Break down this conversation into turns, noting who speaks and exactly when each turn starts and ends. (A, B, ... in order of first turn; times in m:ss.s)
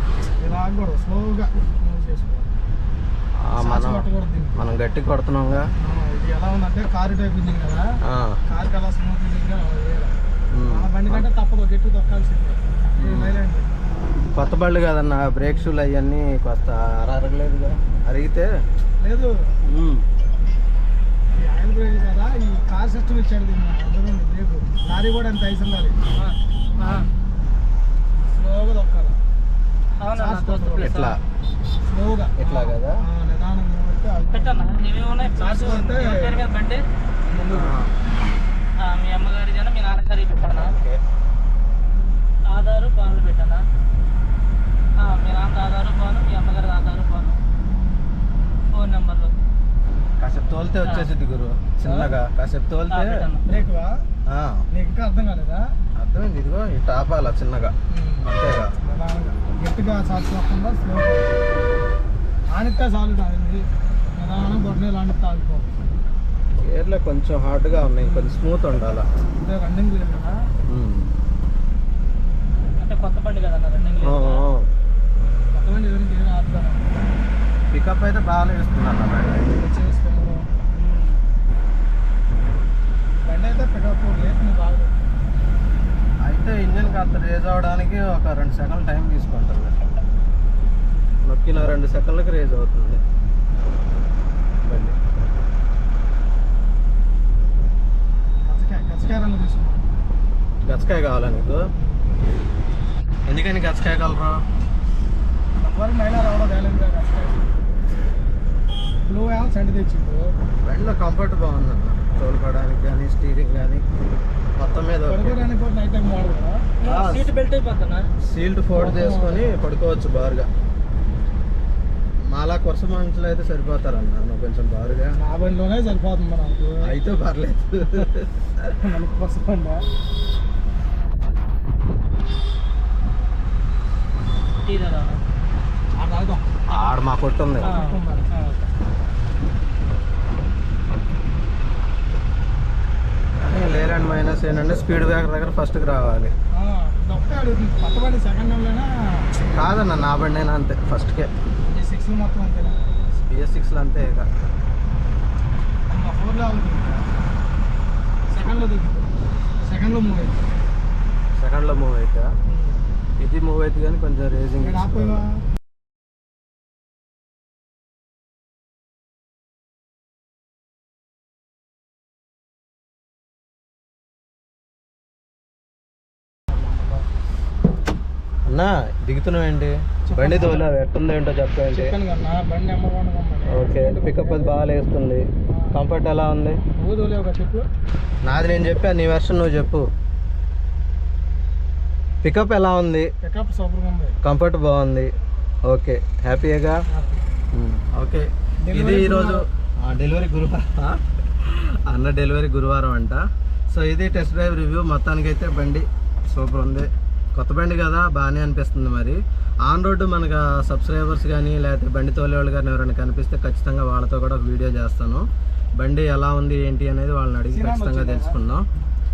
0:00.4-0:02.5 A
0:03.4-0:05.6 B
0:03.6-0:04.6 A
0:05.8-0:07.9 A
0:08.0-0:08.4 B
0:08.5-0:10.1 A
0:10.5-0:11.3 B
0:10.7-0:13.7 A
0:13.0-0:13.4 B
0:14.3-0:18.5 B
0:19.0-0:19.3 A
0:19.6-0:20.0 B
0:21.4-0:26.0 A
0:26.2-0:27.1 C
0:28.2-0:29.2 A
0:30.0-0:31.2 C
0:30.2-0:30.9 A
0:30.8-0:31.2 B
0:31.8-0:36.4 A
0:32.4-0:33.0 B
0:34.3-0:36.8 C
0:37.3-0:37.8 A
0:37.5-0:38.0 B
0:38.8-0:40.8 C
0:40.5-0:41.0 B
0:42.4-0:43.6 C
0:45.0-0:47.4 C
0:48.7-0:49.3 C
0:50.2-0:53.2 B
0:50.8-0:51.1 C
0:51.8-0:52.2 A
0:52.9-0:53.4 C
0:53.5-0:54.0 A
0:54.3-0:54.7 B
0:54.7-0:55.6 A
0:56.0-0:57.7 B
0:57.9-1:01.3 A
0:58.2-0:58.8 B
1:02.5-1:05.7 A
1:06.6-1:09.1 B
1:08.0-1:08.4 A
1:09.4-1:10.4 A
1:10.7-1:11.1 B
1:12.8-1:14.5 C
1:13.9-1:14.1 A
1:14.0-1:14.7 B
1:15.5-1:17.0 A
1:17.7-1:19.6 B
1:19.5-1:20.5 A
1:20.8-1:21.2 C
1:23.2-1:25.0 A
1:26.2-1:29.8 B
1:31.2-1:33.0 B
1:34.6-1:35.0 B
1:38.4-1:39.9 A
1:40.7-1:41.6 B
1:43.3-1:44.4 B
1:45.6-1:47.5 A
1:49.1-1:50.3 A
1:50.6-1:53.8 B
1:54.6-1:55.4 B
1:55.0-1:56.6 A
1:56.8-1:58.1 C
1:56.8-1:57.3 B
1:58.2-2:00.5 B
1:58.7-1:59.6 A
2:02.3-2:05.2 B
2:05.2-2:06.9 A
2:06.8-2:08.6 B
2:08.8-2:09.8 A
2:14.6-2:15.2 C
2:16.0-2:16.5 A
2:16.7-2:17.7 B
2:17.6-2:18.4 A
2:17.6-2:18.6 C
2:23.4-2:26.3 B
2:26.5-2:29.3 A
2:29.5-2:31.3 B
2:31.6-2:32.8 A
2:33.1-2:34.3 B
2:35.9-2:37.1 A
2:38.3-2:39.1 A
2:39.6-2:40.4 A
2:41.3-2:42.3 B
2:42.5-2:42.8 A
2:43.2-2:45.2 B
2:44.6-2:45.4 A
2:56.5-2:57.0 A
2:58.5-3:02.0 B
3:00.1-3:00.8 A
3:01.7-3:04.6 A
3:03.5-3:06.6 B
3:05.5-3:05.8 A
3:06.8-3:07.6 A
3:08.2-3:09.9 B
3:12.2-3:13.1 B
3:13.2-3:14.2 A
3:14.2-3:15.1 B
3:15.7-3:16.8 B
3:16.9-3:17.2 A
3:17.5-3:23.2 B
3:18.6-3:19.4 A
3:23.7-3:35.2 B
3:35.8-3:38.6 B
3:37.5-3:38.4 A